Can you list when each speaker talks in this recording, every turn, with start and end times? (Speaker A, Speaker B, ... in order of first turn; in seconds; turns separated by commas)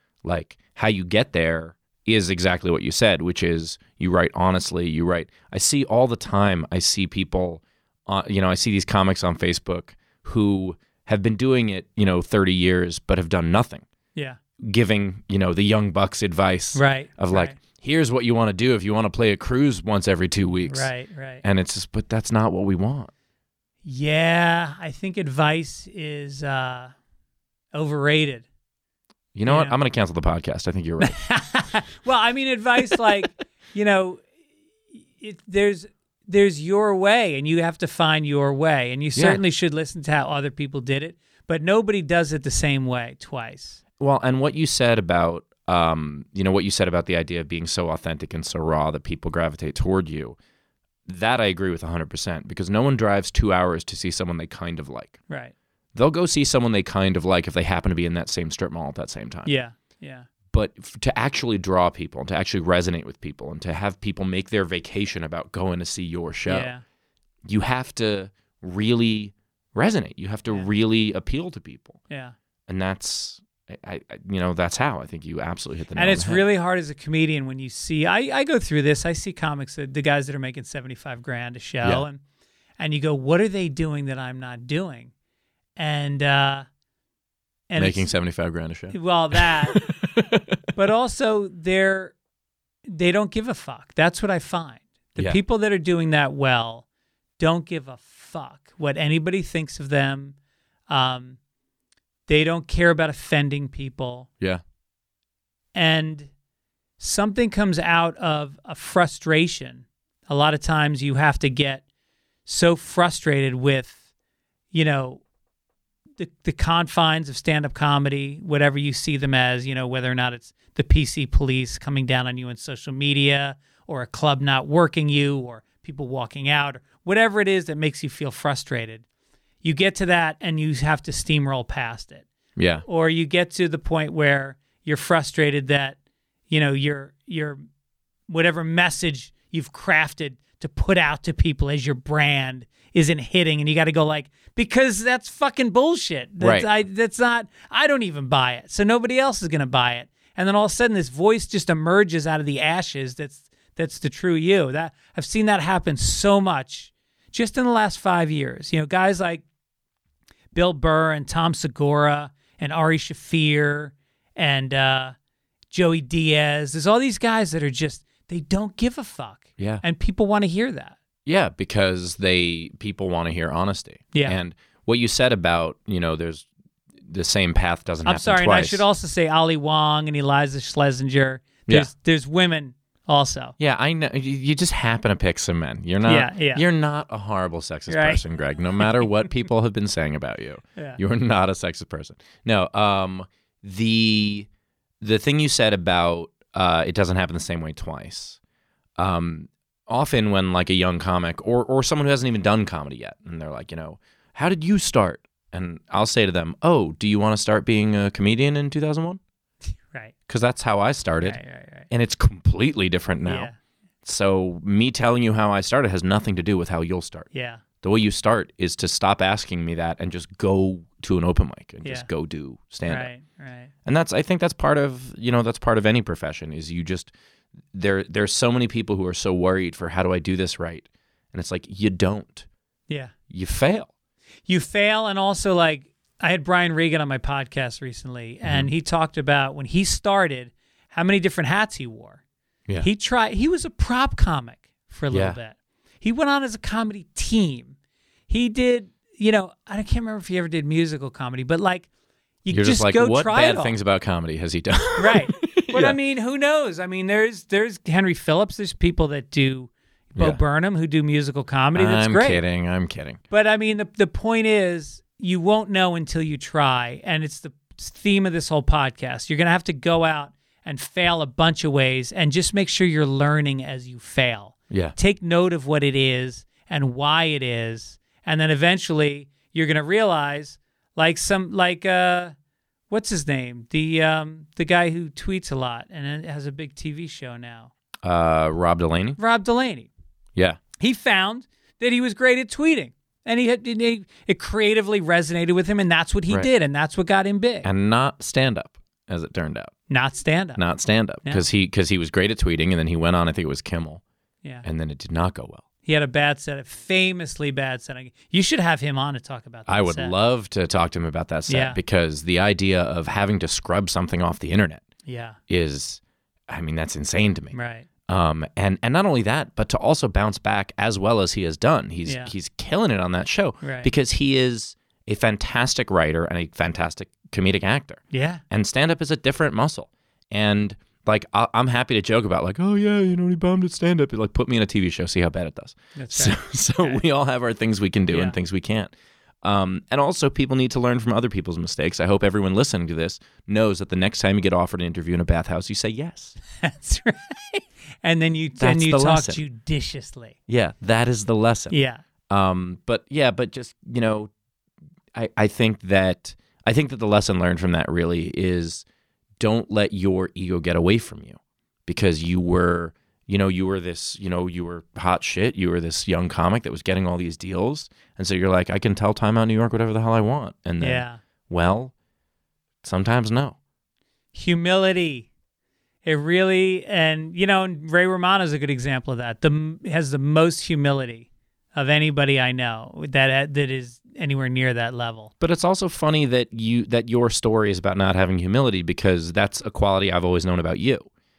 Speaker A: 0.2-13.8, Speaker A: 14.6-20.9, Speaker B: 16.7-17.6, Speaker B: 20.7-21.4, Speaker A: 21.4-23.1, Speaker B: 23.8-26.9, Speaker B: 27.7-28.4, Speaker A: 29.3-31.2, Speaker B: 29.4-29.8, Speaker B: 31.0-34.2, Speaker B: 35.1-43.8, Speaker A: 39.1-39.4, Speaker A: 44.0-50.4, Speaker A: 51.0-55.2, Speaker B: 55.3-55.5, Speaker A: 55.9-59.5, Speaker B: 59.4-60.3, Speaker A: 60.5-66.7, Speaker B: 66.5-66.8, Speaker A: 67.5-72.0, Speaker B: 72.1-72.3, Speaker A: 72.7-76.4, Speaker B: 75.9-82.2, Speaker B: 82.8-85.1, Speaker B: 85.8-86.7, Speaker B: 87.7-88.1, Speaker A: 87.8-90.6, Speaker B: 88.9-89.8, Speaker B: 90.7-92.1, Speaker B: 92.9-96.8, Speaker B: 97.4-100.4, Speaker B: 100.9-101.4, Speaker B: 102.3-104.3, Speaker B: 105.7-106.3, Speaker B: 107.0-111.8, Speaker B: 112.5-114.0, Speaker B: 114.7-115.2, Speaker B: 116.2-129.0, Speaker B: 129.6-132.2, Speaker A: 132.6-132.8, Speaker B: 132.8-136.0, Speaker B: 136.5-137.6, Speaker B: 138.3-159.4, Speaker A: 146.4-146.7, Speaker B: 160.5-165.1, Speaker B: 165.7-170.9, Speaker A: 169.6-169.8, Speaker A: 171.2-176.5, Speaker B: 174.1-174.4, Speaker A: 177.0-178.8, Speaker B: 178.1-183.5, Speaker A: 183.6-194.5, Speaker B: 186.0-186.6, Speaker B: 187.9-188.2, Speaker A: 195.0-198.4, Speaker A: 199.0-209.2, Speaker A: 210.3-211.4, Speaker B: 211.2-211.9, Speaker A: 211.9-213.5, Speaker B: 213.2-213.6, Speaker A: 214.0-217.3, Speaker B: 217.3-217.6, Speaker A: 217.8-223.1, Speaker B: 222.9-223.7, Speaker A: 223.8-227.1, Speaker A: 227.7-232.4, Speaker A: 233.3-233.9, Speaker B: 234.5-242.2, Speaker A: 238.4-238.7, Speaker B: 242.8-247.8, Speaker A: 245.1-245.4, Speaker B: 248.3-251.9, Speaker B: 252.4-253.8, Speaker A: 252.5-256.0, Speaker B: 254.9-262.4, Speaker A: 261.7-263.2, Speaker B: 263.3-282.3, Speaker A: 274.7-274.9, Speaker B: 282.9-287.7, Speaker A: 288.0-289.2, Speaker B: 289.2-289.9, Speaker A: 290.3-290.6, Speaker B: 290.8-297.7, Speaker A: 297.6-299.7, Speaker B: 299.9-300.6, Speaker A: 300.6-304.0, Speaker A: 304.6-305.6, Speaker B: 305.8-310.1, Speaker A: 309.7-314.8, Speaker B: 311.5-311.8, Speaker B: 315.0-315.4, Speaker A: 315.5-317.5, Speaker B: 317.5-317.9, Speaker A: 318.1-338.9, Speaker B: 322.0-322.3, Speaker B: 323.6-323.9, Speaker B: 328.1-328.4, Speaker B: 335.9-337.0, Speaker B: 338.1-338.3, Speaker A: 339.4-346.4, Speaker B: 346.6-350.4, Speaker A: 348.6-349.4, Speaker A: 350.5-351.7, Speaker B: 351.7-352.0, Speaker A: 352.3-354.3, Speaker A: 355.1-358.8, Speaker A: 359.4-371.9, Speaker B: 370.8-371.2, Speaker A: 372.8-373.6, Speaker B: 374.3-375.3, Speaker B: 376.0-385.3, Speaker A: 385.4-391.1